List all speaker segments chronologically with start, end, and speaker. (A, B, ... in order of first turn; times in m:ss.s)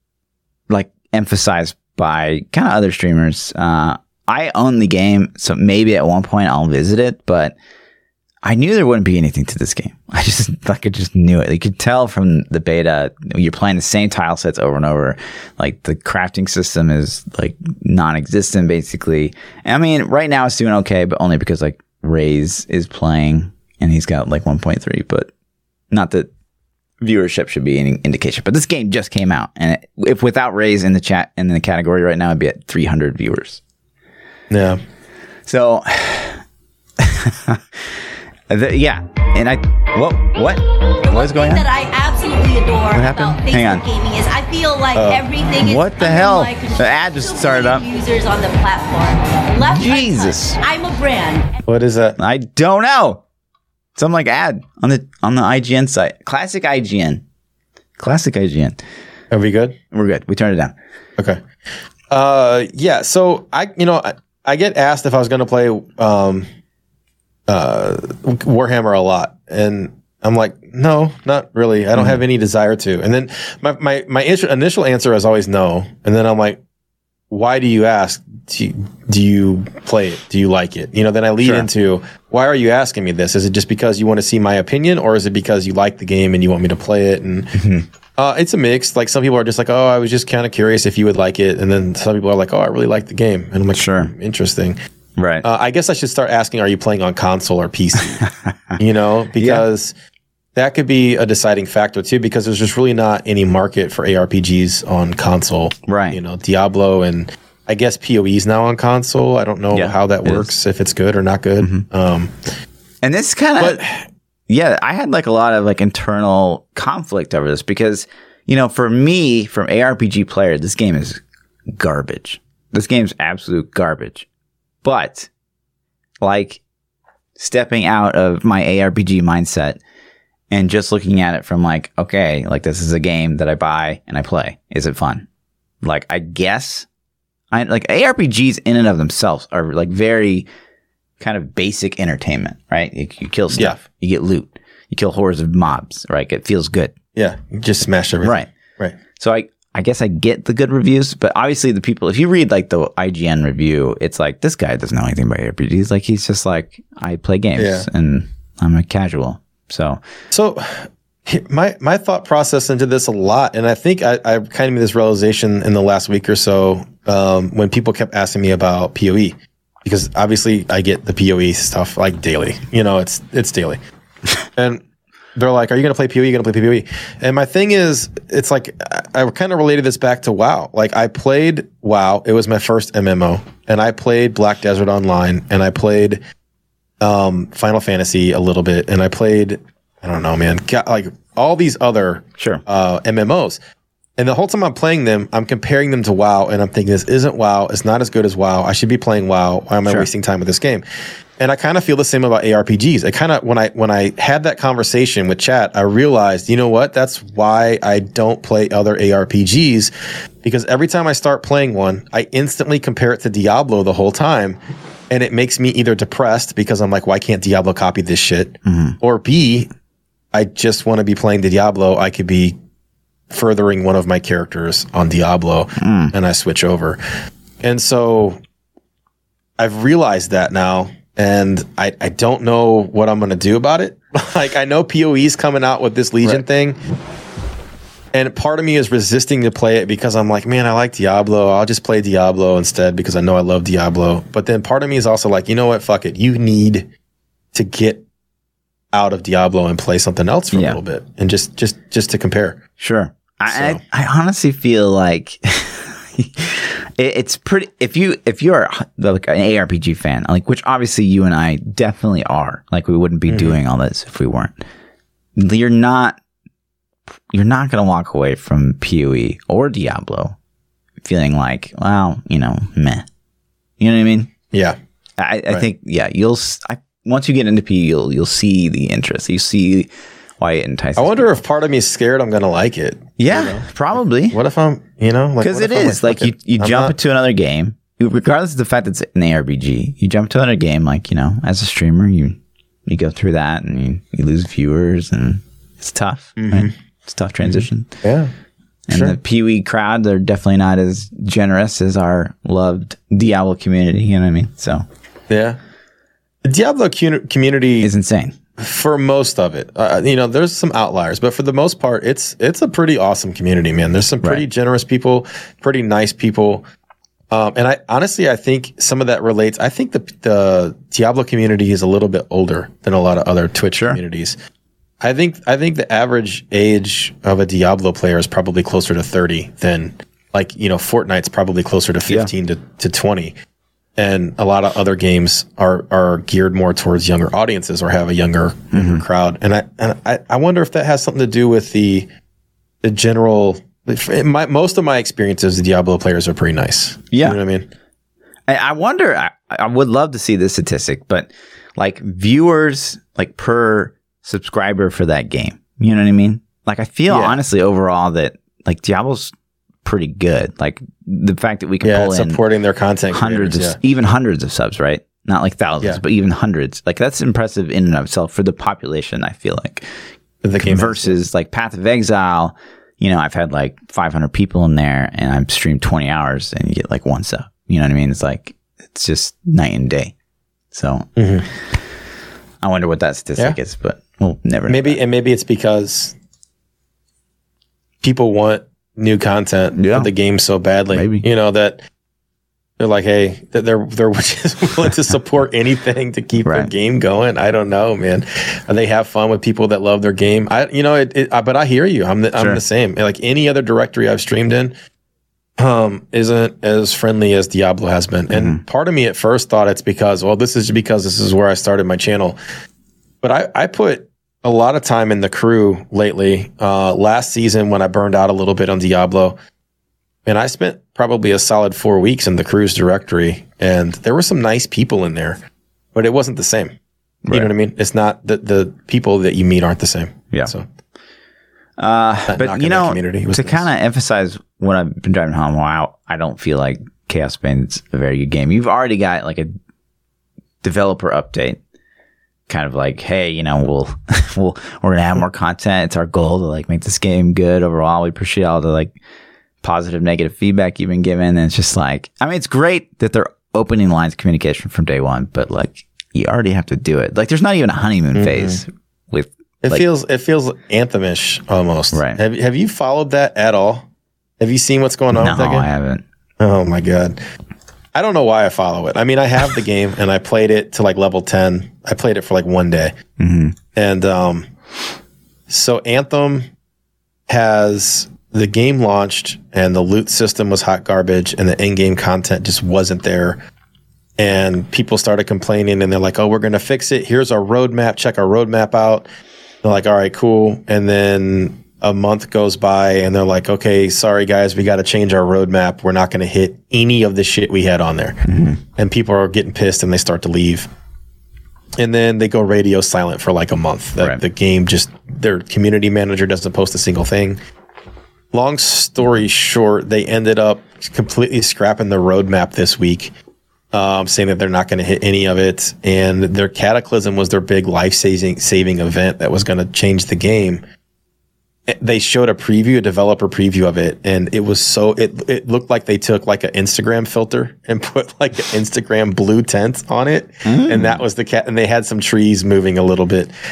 0:00.7-0:07.6 A
0:08.4-0:25.3 A
0:25.9-0:26.3 A
0:27.0-0:33.6 A
0:34.5-0:34.8 B
0:35.5-0:36.4 A
0:37.0-0:41.6 A
0:41.0-0:51.6 C
0:42.9-0:43.8 A
0:44.9-0:45.2 B
0:45.6-0:47.8 A
0:49.6-0:50.6 A
0:51.7-0:52.2 B
0:52.2-0:53.2 A
0:54.0-0:57.2 A
0:58.0-0:58.8 A
0:59.3-0:59.8 B
0:59.9-1:00.7 A
1:02.1-1:06.5 B
1:07.5-1:16.6 B
1:17.3-1:27.6 B
1:21.4-1:21.7 A
1:27.6-1:27.9 A
1:28.2-1:34.8 B
1:33.7-1:34.1 A
1:35.2-1:35.4 A
1:35.4-1:38.2 B
1:38.1-1:38.7 A
1:38.8-1:39.9 B
1:39.4-1:39.6 A
1:40.6-1:52.5 B
1:45.9-1:46.2 A
1:49.7-1:50.5 A
1:51.6-1:51.9 A
1:53.0-1:53.8 A
1:53.6-1:54.0 B
1:54.5-2:01.2 A
2:01.8-2:04.3 A
2:04.8-2:05.3 A
2:06.2-2:06.6 A
2:07.4-2:09.8 A
2:10.5-2:15.3 A
2:15.8-2:16.9 A
2:17.5-2:20.5 A
2:21.2-2:26.9 A
2:27.2-2:29.0 B
2:28.2-2:28.5 A
2:29.2-2:40.0 A
2:37.6-2:37.9 B
2:40.3-2:53.8 B
2:54.6-2:54.8 B
2:55.4-3:06.2 B
3:07.0-3:13.6 B
3:14.2-3:20.8 B
3:21.4-3:29.9 B
3:30.4-3:34.6 B
3:35.1-3:39.7 B
3:38.7-3:39.0 A
3:40.3-3:42.6 B
3:43.3-3:47.0 B
3:45.8-3:46.1 A
3:47.6-3:48.4 B
3:49.6-3:56.8 B
3:58.1-4:06.9 B
4:07.5-4:08.0 B
4:08.9-4:12.6 B
4:10.5-4:10.8 A
4:12.8-4:24.6 A
4:13.5-4:13.8 B
4:23.3-4:23.6 B
4:25.4-4:26.2 A
4:27.3-4:30.4 A
4:31.0-4:33.1 A
4:33.8-4:34.3 A
4:35.2-4:41.4 A
4:41.0-4:43.7 B
4:43.2-4:44.4 A
4:44.3-4:47.0 B
4:45.4-4:57.9 A
4:56.4-4:56.7 B
4:57.5-4:58.3 B
4:58.9-5:04.8 A
4:58.9-4:59.2 B
5:05.3-5:05.6 B
5:06.4-5:07.9 B
5:07.8-5:08.4 A
5:08.6-5:16.6 B
5:17.3-5:24.4 B
5:23.7-5:24.0 A
5:25.0-5:33.3 B
5:34.0-5:42.1 B
5:38.7-5:39.0 A
5:42.8-5:47.7 B
5:47.1-5:47.4 A
5:48.5-6:02.4 A
5:57.1-5:57.4 B
6:01.8-6:03.8 B
6:03.1-6:09.9 A
6:10.4-6:11.2 B
6:10.6-6:20.1 A
6:20.7-6:21.1 A
6:21.2-6:21.5 B
6:22.6-6:25.0 A
6:24.7-6:26.2 B
6:28.0-6:31.8 B
6:29.8-6:30.1 A
6:30.9-6:31.3 A
6:32.8-6:44.7 B
6:36.4-6:36.7 A
6:45.6-6:52.4 B
6:48.3-6:48.6 A
6:53.2-6:59.4 B
7:00.3-7:05.4 B
7:06.0-7:06.8 B
7:07.3-7:07.5 A
7:07.3-7:10.7 B
7:11.8-7:19.5 A
7:12.3-7:13.7 B
7:20.6-7:21.6 A
7:22.5-7:29.0 A
7:29.6-7:39.8 A
7:38.1-7:38.6 B
7:39.6-7:43.9 B
7:41.9-7:42.2 A
7:44.4-7:45.7 B
7:45.1-7:46.0 A
7:46.4-7:47.2 B
7:48.0-7:52.9 B
7:53.2-7:53.6 A
7:53.7-7:54.5 B
7:55.5-7:56.5 B
7:57.3-8:03.4 B
8:04.2-8:09.1 B
8:09.6-8:18.2 B
8:18.2-8:18.6 A
8:18.8-8:20.7 B
8:21.8-8:27.4 B
8:28.3-8:33.1 B
8:33.7-8:40.6 B
8:41.7-8:53.3 B
8:50.4-8:51.0 A